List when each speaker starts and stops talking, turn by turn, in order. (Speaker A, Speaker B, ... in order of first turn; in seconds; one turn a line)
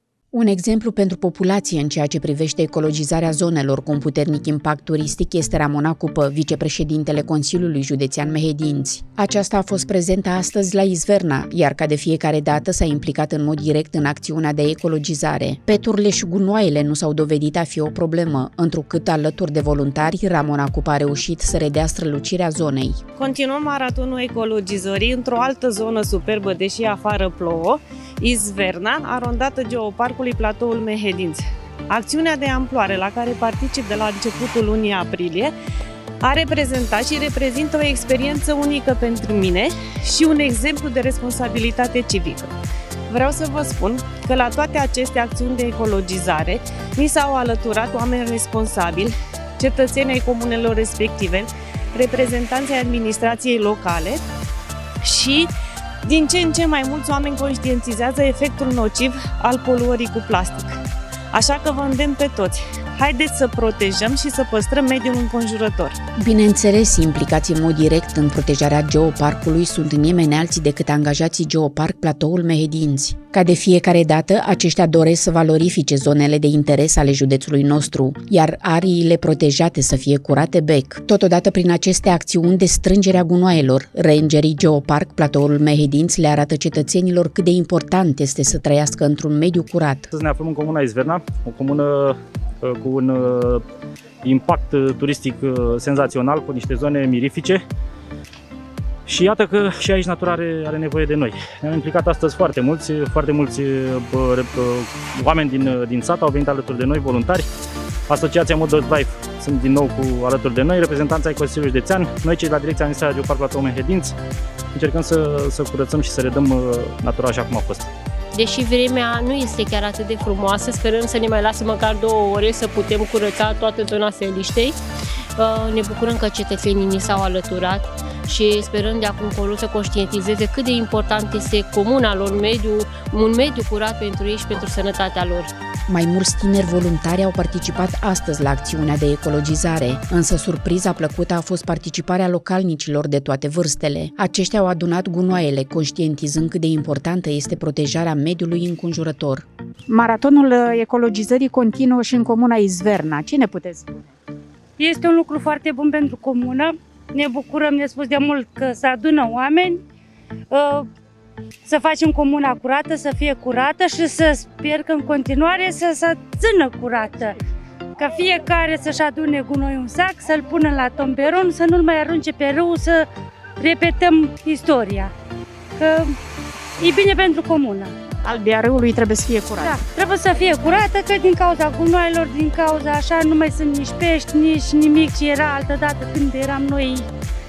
Speaker A: 0.3-23.0
Speaker B: 23.2-35.5
Speaker B: 36.2-42.5
Speaker B: 43.1-54.2
Speaker B: 55.0-55.5
Speaker B: 56.0-60.7
Speaker B: 61.3-65.9
Speaker A: 66.2-90.1
Speaker C: 90.1-93.6
Speaker C: 94.2-97.6
Speaker C: 99.1-107.5
Speaker C: 108.1-114.1
Speaker C: 114.7-117.9
Speaker D: 118.3-124.8
Speaker D: 125.4-135.5
Speaker A: 135.9-149.5
Speaker E: 149.9-154.0
Speaker F: 154.8-159.8
Speaker F: 160.5-160.9
Speaker F: 161.6-167.3
Speaker F: 168.0-173.1
Speaker F: 173.6-175.1
Speaker F: 175.8-176.1
Speaker F: 176.8-177.9
Speaker E: 178.2-179.9
Speaker F: 179.6-187.1